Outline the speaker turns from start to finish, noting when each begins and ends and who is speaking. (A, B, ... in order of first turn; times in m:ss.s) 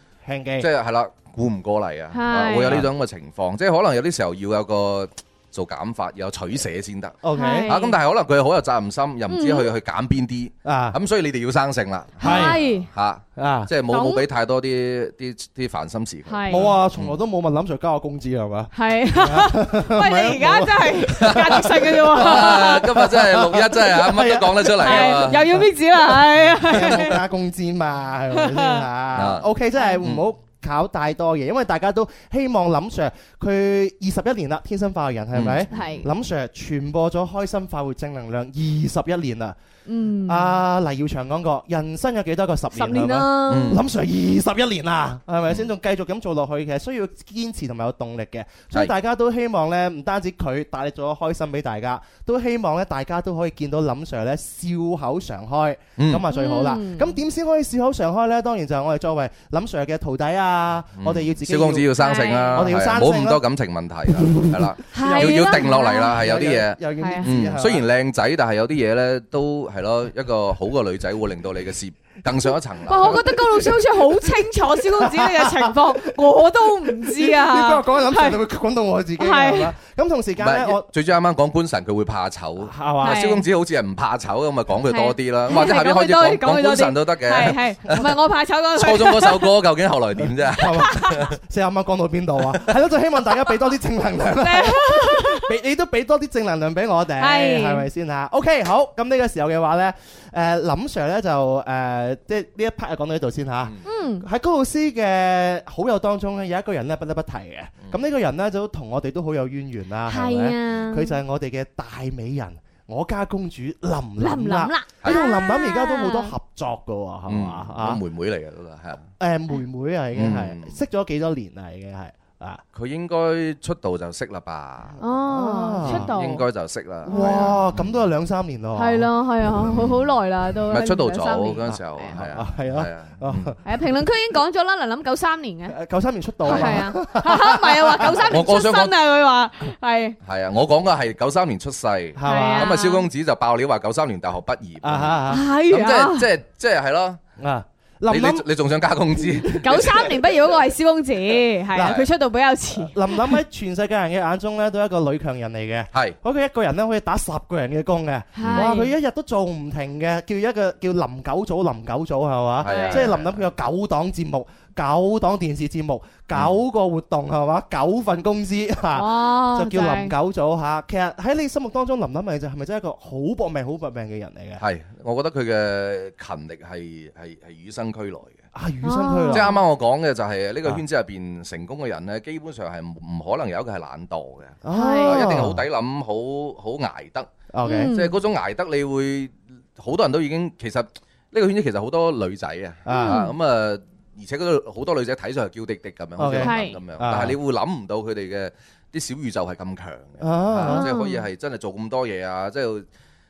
0:00.2-0:00.7 A
0:00.6-0:17.2 B
0:02.1-0:02.8 C
0:02.6-0:02.9 A
0:07.2-0:07.7 A
0:07.3-0:08.0 C
0:09.3-0:09.7 C
0:10.6-0:11.0 A
0:12.2-0:12.6 A
0:12.2-0:12.9 C
0:13.4-0:13.7 A
0:13.9-0:14.2 C
0:16.3-0:16.7 C
0:16.5-0:39.6 A
0:18.7-0:23.0 C
0:21.1-0:25.7 B
0:24.8-0:27.2 C
0:28.3-0:28.9 C
0:29.1-0:29.5 B
0:35.3-0:36.1 B
0:35.7-0:36.1 C
0:39.9-0:40.6 C
0:40.2-1:02.0 A
0:42.7-0:43.8 C
0:43.5-0:43.8 B
0:56.0-0:56.2 B
0:56.3-0:57.2 C
1:01.0-1:13.4 B
1:02.0-1:02.7 C
1:02.5-1:03.4 A
1:04.1-1:07.9 A
1:04.9-1:06.2 C
1:07.0-1:07.3 C
1:12.9-1:18.4 C
1:13.0-1:16.2 A
1:16.8-1:20.9 A
1:19.2-1:19.7 C
1:20.4-1:28.2 B
1:22.6-1:23.3 A
1:23.0-1:23.4 C
1:24.9-1:29.5 C
1:28.7-1:31.3 B
1:30.2-1:58.0 A
1:30.6-1:31.3 C
1:34.4-1:35.5 C
1:37.2-1:37.9 C
1:43.8-1:44.3 C
1:50.1-1:51.1 C
1:54.2-1:56.4 C
1:57.3-1:59.0 B
1:59.2-2:02.6 A
2:00.2-2:00.8 B
2:02.8-2:05.0 B
2:05.0-2:06.2 A
2:05.0-2:06.4 C
2:05.8-2:07.9 B
2:07.1-2:07.5 C
2:07.1-2:09.1 A
2:08.8-2:12.2 C
2:09.6-2:10.1 B
2:10.7-2:13.6 B
2:11.8-2:13.6 A
2:13.6-2:15.8 C
2:15.7-2:18.4 A
2:16.4-2:20.2 C
2:16.5-2:16.8 B
2:18.0-2:19.0 B
2:20.2-2:27.2 B
2:22.2-2:22.8 A
2:22.2-2:23.1 C
2:24.8-2:25.5 A
2:25.3-2:26.3 C
2:27.4-2:28.5 A
2:28.1-2:30.3 B
2:29.4-2:33.4 C
2:31.7-2:32.1 A
2:31.8-2:32.1 B
2:32.8-2:54.6 A
2:38.4-2:38.9 C
2:38.4-2:38.7 B
2:42.6-2:43.4 B
2:42.6-2:43.1 C
2:49.0-2:50.2 C
2:54.6-2:58.4 B
2:58.5-2:59.6 A
2:58.8-2:59.6 C
2:59.3-3:22.9 B
3:04.6-3:05.6 A
3:04.7-3:05.2 C
3:07.5-3:07.9 A
3:07.6-3:08.2 C
3:12.8-3:13.3 A
3:12.9-3:13.3 C
3:16.2-3:17.4 A
3:16.4-3:16.8 C
3:20.2-3:20.9 A
3:20.7-3:21.2 C